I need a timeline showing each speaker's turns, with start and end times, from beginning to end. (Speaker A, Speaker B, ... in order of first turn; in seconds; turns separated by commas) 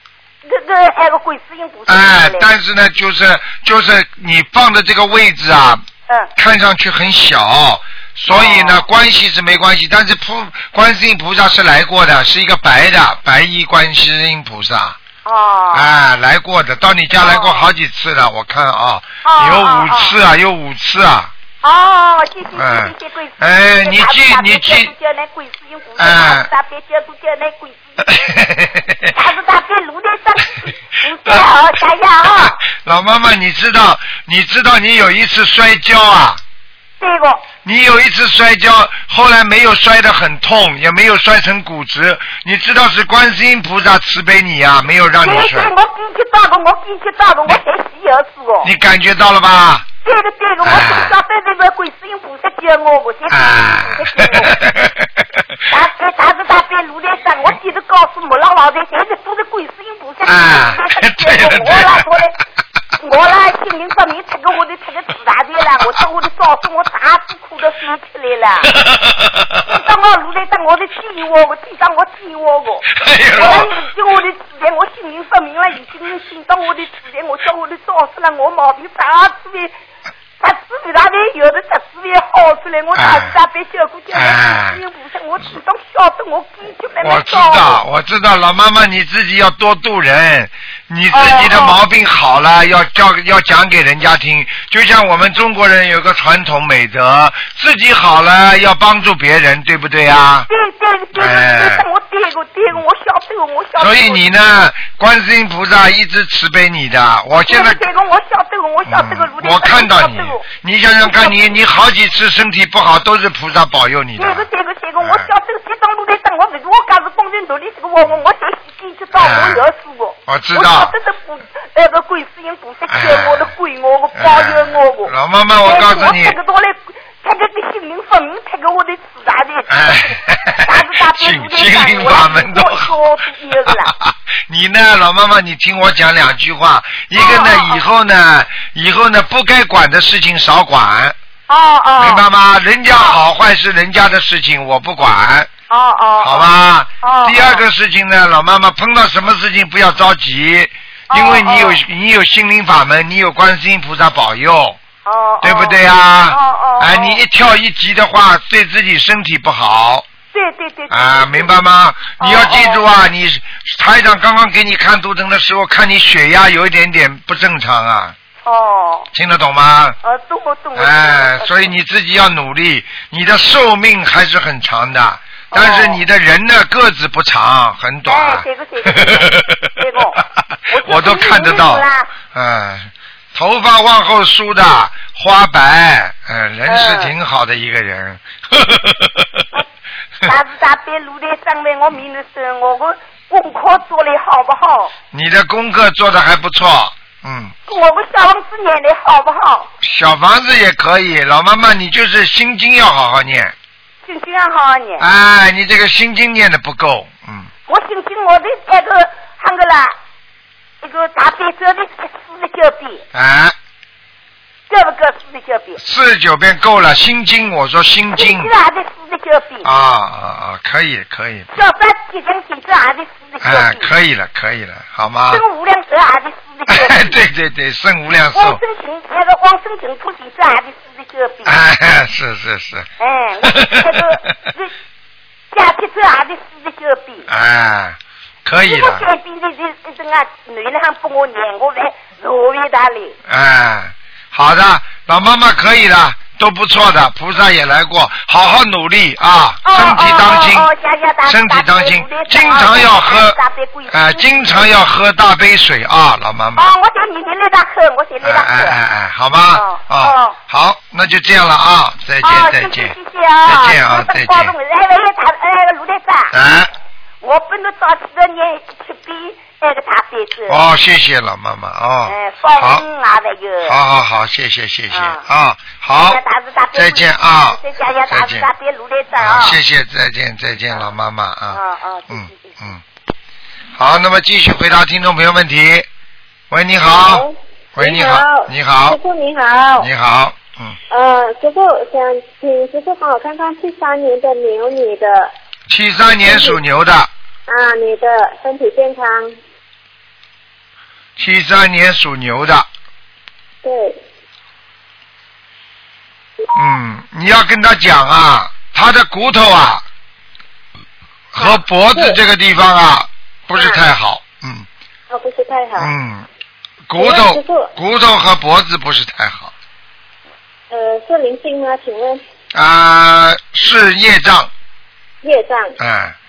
Speaker A: 0.4-2.5, Speaker B: 1.9-5.8, Speaker B: 6.4-15.0, Speaker A: 8.3-8.9, Speaker A: 15.2-15.9, Speaker B: 15.7-21.3, Speaker A: 17.2-17.7, Speaker A: 19.2-20.2, Speaker A: 21.6-28.1, Speaker B: 22.5-24.9, Speaker B: 26.0-26.5, Speaker B: 28.0-29.1, Speaker A: 29.1-32.6, Speaker B: 31.2-31.5, Speaker B: 32.4-36.4, Speaker A: 37.0-37.4, Speaker B: 37.6-45.7, Speaker A: 45.2-48.7, Speaker B: 48.6-49.9, Speaker A: 50.0-54.6, Speaker B: 50.6-51.2, Speaker B: 53.3-55.4, Speaker A: 55.7-62.4, Speaker B: 60.3-62.1, Speaker A: 63.0-68.7, Speaker B: 68.7-69.8, Speaker A: 69.7-79.7, Speaker B: 72.9-73.7, Speaker A: 80.4-87.8, Speaker B: 83.0-83.4, Speaker B: 84.1-84.8, Speaker B: 87.0-100.5, Speaker A: 91.1-91.8, Speaker A: 100.5-104.2, Speaker B: 101.1-101.8, Speaker B: 103.8-107.8, Speaker A: 107.5-110.4, Speaker B: 108.9-114.5, Speaker A: 111.0-111.4, Speaker A: 114.2-125.1, Speaker B: 115.0-115.3, Speaker B: 119.2-119.7, Speaker B: 120.3-120.9, Speaker B: 122.9-123.5, Speaker B: 124.2-126.4, Speaker A: 125.6-133.9, Speaker B: 129.7-133.0, Speaker B: 133.7-141.2, Speaker A: 137.1-137.8, Speaker A: 141.5-142.2, Speaker B: 142.0-145.5, Speaker A: 142.9-143.2, Speaker A: 145.7-146.5, Speaker B: 146.2-154.8, Speaker A: 147.0-147.6, Speaker A: 151.1-151.8, Speaker A: 155.1-157.2, Speaker B: 155.4-160.1, Speaker A: 160.3-161.5, Speaker B: 160.9-168.2, Speaker A: 162.2-162.8, Speaker A: 168.4-169.1, Speaker B: 169.1-170.0, Speaker A: 170.0-171.8, Speaker B: 170.8-179.7, Speaker A: 175.5-176.0, Speaker A: 178.1-182.1, Speaker B: 180.8-189.5, Speaker A: 186.7-187.1, Speaker A: 190.2-194.9, Speaker B: 195.1-197.5, Speaker A: 197.7-199.7, Speaker B: 199.8-203.5, Speaker A: 204.0-205.1, Speaker B: 205.0-207.5, Speaker A: 207.7-209.9, Speaker A: 210.8-213.1, Speaker B: 213.1-213.6, Speaker A: 214.7-215.8, Speaker B: 215.8-218.5, Speaker A: 218.1-219.7, Speaker B: 219.6-221.5, Speaker A: 221.5-223.9, Speaker B: 223.4-225.4, Speaker A: 225.3-227.2, Speaker B: 226.7-228.6, Speaker A: 228.3-231.6, Speaker B: 231.4-232.9, Speaker A: 233.0-234.7, Speaker B: 233.4-234.3, Speaker A: 235.5-237.3, Speaker B: 237.3-239.1, Speaker A: 238.7-243.2, Speaker B: 243.3-250.7, Speaker A: 249.7-254.7, Speaker B: 251.3-256.7, Speaker A: 256.6-258.8, Speaker B: 258.2-264.5, Speaker A: 259.5-260.4, Speaker A: 262.2-266.3, Speaker B: 266.3-266.7, Speaker A: 267.2-270.6, Speaker B: 270.5-272.8, Speaker A: 272.1-273.8, Speaker B: 273.6-276.2, Speaker A: 274.9-275.2, Speaker A: 275.9-279.6, Speaker B: 276.7-277.6, Speaker B: 278.1-278.5, Speaker B: 279.2-282.8, Speaker A: 281.5-282.6, Speaker B: 283.8-285.9, Speaker B: 286.5-289.0, Speaker C: 286.8-289.9, Speaker B: 289.8-290.8, Speaker C: 290.9-295.3, Speaker B: 295.7-297.1, Speaker C: 296.2-296.6, Speaker C: 297.5-299.4, Speaker B: 301.2-302.7, Speaker C: 303.6-304.0, Speaker B: 306.5-309.9, Speaker B: 311.3-314.7, Speaker C: 315.1-315.9, Speaker B: 315.8-316.3, Speaker B: 316.9-319.5, Speaker C: 317.0-317.7, Speaker C: 320.7-322.2, Speaker B: 322.5-324.5, Speaker C: 325.2-325.8, Speaker B: 325.8-326.1